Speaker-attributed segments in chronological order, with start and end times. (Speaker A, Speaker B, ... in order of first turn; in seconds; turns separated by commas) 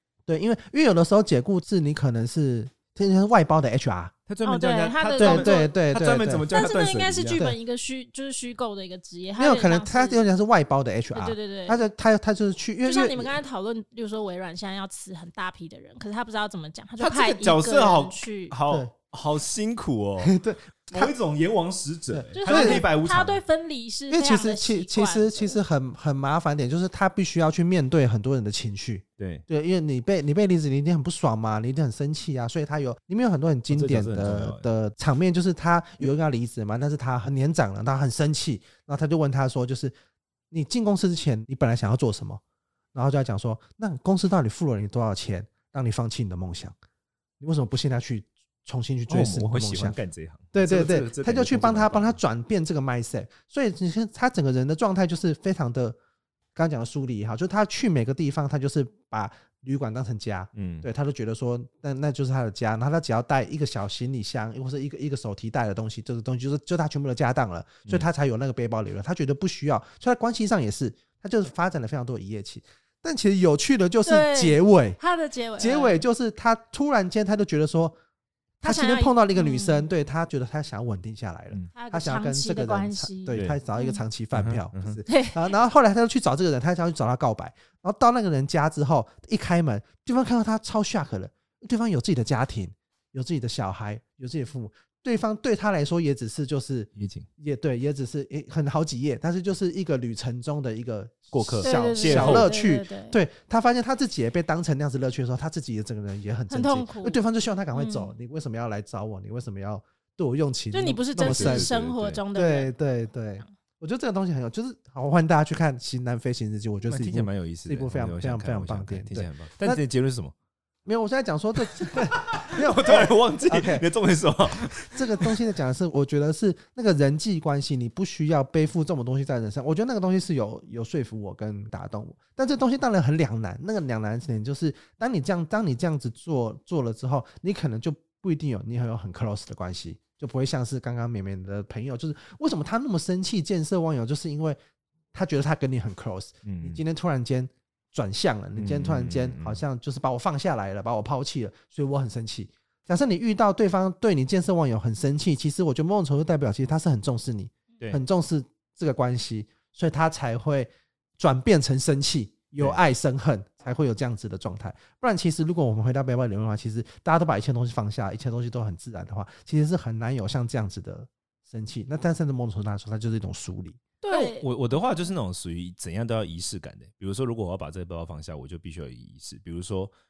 Speaker A: 0.3-4.1, Speaker B: 4.3-7.4, Speaker C: 4.4-5.7, Speaker A: 5.2-6.5, Speaker C: 6.5-10.3, Speaker A: 9.4-13.3, Speaker C: 11.1-11.8, Speaker C: 12.8-18.5, Speaker B: 17.0-20.3, Speaker A: 20.2-21.1, Speaker B: 20.9-23.4, Speaker A: 22.1-22.8, Speaker C: 22.4-25.6, Speaker A: 24.1-39.9, Speaker B: 29.2-29.4, Speaker B: 33.7-34.6, Speaker A: 40.5-42.4, Speaker A: 42.9-46.7, Speaker A: 47.4-50.0, Speaker B: 49.1-52.2, Speaker A: 50.5-56.0, Speaker A: 56.5-75.0, Speaker B: 60.5-60.9, Speaker C: 74.0-76.0, Speaker A: 75.6-78.0, Speaker C: 78.6-79.9, Speaker A: 78.6-111.7, Speaker C: 81.7-84.0, Speaker B: 83.3-83.6, Speaker B: 84.3-85.0, Speaker C: 85.1-85.5, Speaker B: 97.0-97.3, Speaker B: 101.3-102.5, Speaker C: 101.6-103.2, Speaker C: 106.5-107.2, Speaker C: 107.7-108.1, Speaker C: 110.7-112.7, Speaker B: 111.2-112.2, Speaker A: 112.3-119.8, Speaker B: 116.9-120.3, Speaker A: 120.8-123.8, Speaker B: 121.8-125.3, Speaker A: 124.9-144.6, Speaker A: 145.1-173.8, Speaker B: 146.4-146.8, Speaker B: 148.5-149.6, Speaker C: 174.0-174.4, Speaker B: 174.1-179.9